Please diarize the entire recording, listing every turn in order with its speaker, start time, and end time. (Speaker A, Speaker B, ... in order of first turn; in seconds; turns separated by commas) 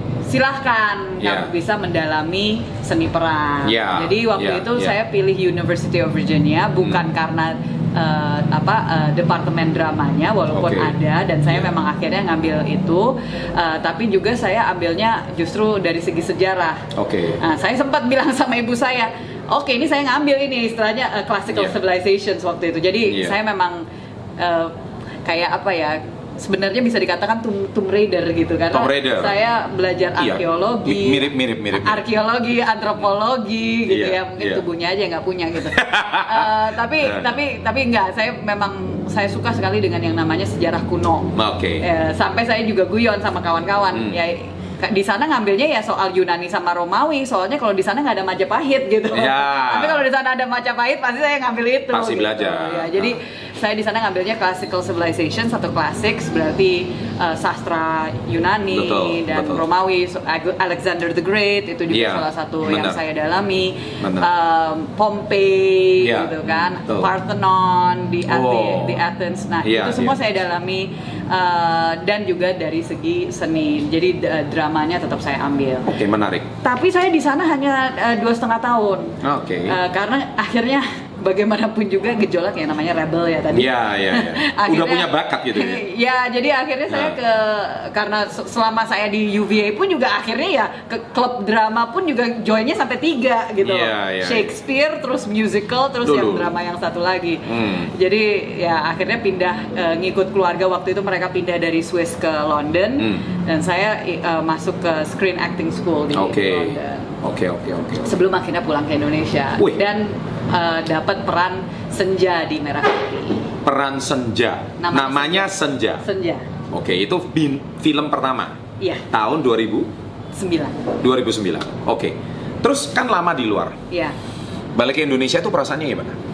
Speaker A: 0.3-16.9, Speaker B: 1.2-1.5, Speaker B: 3.6-5.0, Speaker B: 10.5-10.9, Speaker B: 16.9-17.4, Speaker A: 17.4-23.8, Speaker B: 21.5-21.8, Speaker B: 23.1-23.4, Speaker A: 24.4-24.7, Speaker A: 25.2-75.9, Speaker B: 28.7-29.4, Speaker B: 30.2-32.0, Speaker B: 33.9-34.6, Speaker B: 35.6-37.3, Speaker B: 41.3-41.8, Speaker B: 43.9-44.2, Speaker B: 49.1-50.0, Speaker B: 51.9-53.1, Speaker B: 58.7-59.6, Speaker B: 61.9-63.0, Speaker B: 64.0-64.3, Speaker B: 66.0-67.1, Speaker B: 68.3-69.0, Speaker B: 69.6-70.2, Speaker B: 75.8-76.5, Speaker A: 76.6-107.2, Speaker B: 79.2-79.8, Speaker B: 83.5-85.8, Speaker B: 86.9-87.2, Speaker B: 93.6-94.5, Speaker B: 96.0-96.5, Speaker B: 97.5-97.9, Speaker B: 103.0-103.2, Speaker B: 106.1-108.1, Speaker A: 108.0-113.5, Speaker B: 113.6-116.0, Speaker A: 114.8-116.5, Speaker B: 116.7-118.6, Speaker A: 118.8-119.1, Speaker B: 119.1-119.9, Speaker A: 120.3-120.9, Speaker B: 121.0-123.8, Speaker A: 123.9-124.1, Speaker B: 124.7-126.1